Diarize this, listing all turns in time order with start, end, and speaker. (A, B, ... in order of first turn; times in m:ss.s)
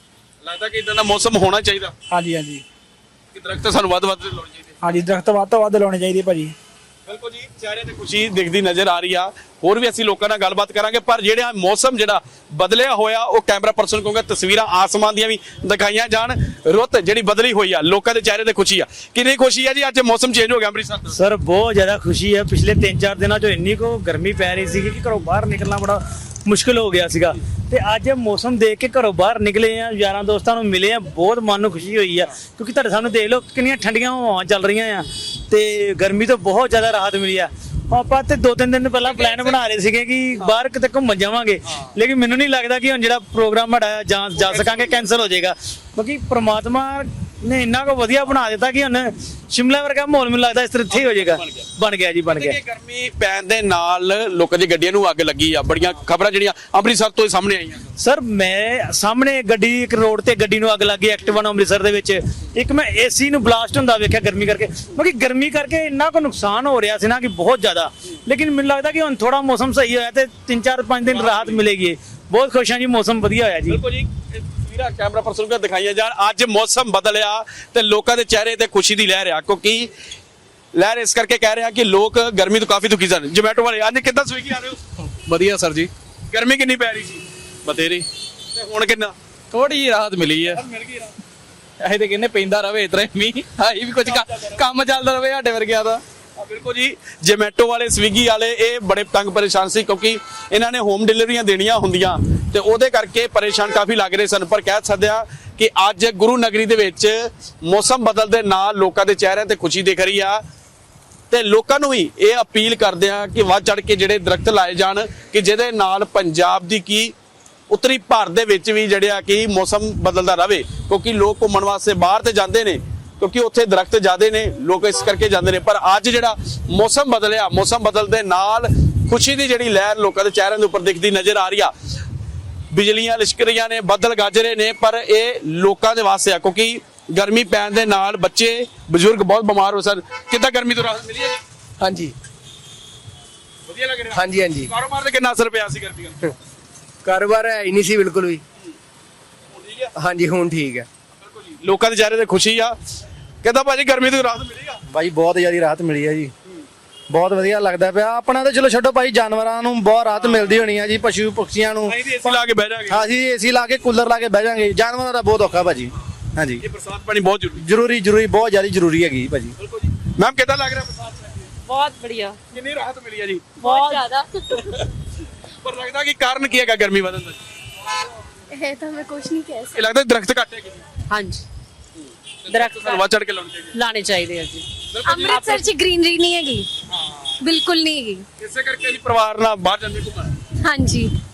0:00.4-0:01.9 A
0:02.1-0:02.6 B
0:03.3-0:04.8 A
0:04.8-0:06.5 B
0:07.1-0:21.2 A
0:21.1-0:52.6 C
0:44.4-0:45.0 A
0:50.9-0:51.7 A
0:52.3-0:57.9 A
0:58.0-1:13.8 C
1:11.1-1:11.6 A
1:13.7-1:19.9 A
1:20.7-1:24.8 A
1:25.2-1:25.9 D
1:26.3-1:29.1 A
1:29.5-1:30.6 D
1:30.6-1:31.1 A
1:31.8-1:36.0 D
1:34.1-1:34.4 A
1:36.4-1:50.4 A
1:51.3-1:57.1 A
1:57.7-2:11.7 A
2:12.7-2:21.4 A
2:21.8-2:22.1 E
2:23.7-2:26.3 A
2:24.1-2:24.7 E
2:27.0-2:28.4 E
2:29.5-2:29.9 A
2:29.9-2:30.9 E
2:31.2-2:32.7 A
2:33.4-2:34.8 A
2:34.9-2:36.3 F
2:37.1-2:42.4 F
2:41.8-2:43.0 A
2:42.9-2:46.6 F
2:46.6-2:47.6 A
2:47.6-2:49.5 F
2:49.6-2:51.5 A
2:51.7-2:52.4 G
2:52.5-2:53.7 A
2:53.6-2:54.3 G
2:53.7-2:54.0 H
2:55.6-2:57.4 A
2:58.5-2:59.8 H
2:59.7-3:00.8 A
3:01.1-3:01.4 G
3:02.4-3:03.8 A
3:02.5-3:03.1 G
3:03.7-3:04.6 G
3:04.9-3:05.7 A
3:05.0-3:06.7 H
3:05.2-3:05.6 G
3:07.4-3:08.2 H
3:08.4-3:10.4 A
3:10.6-3:11.1 H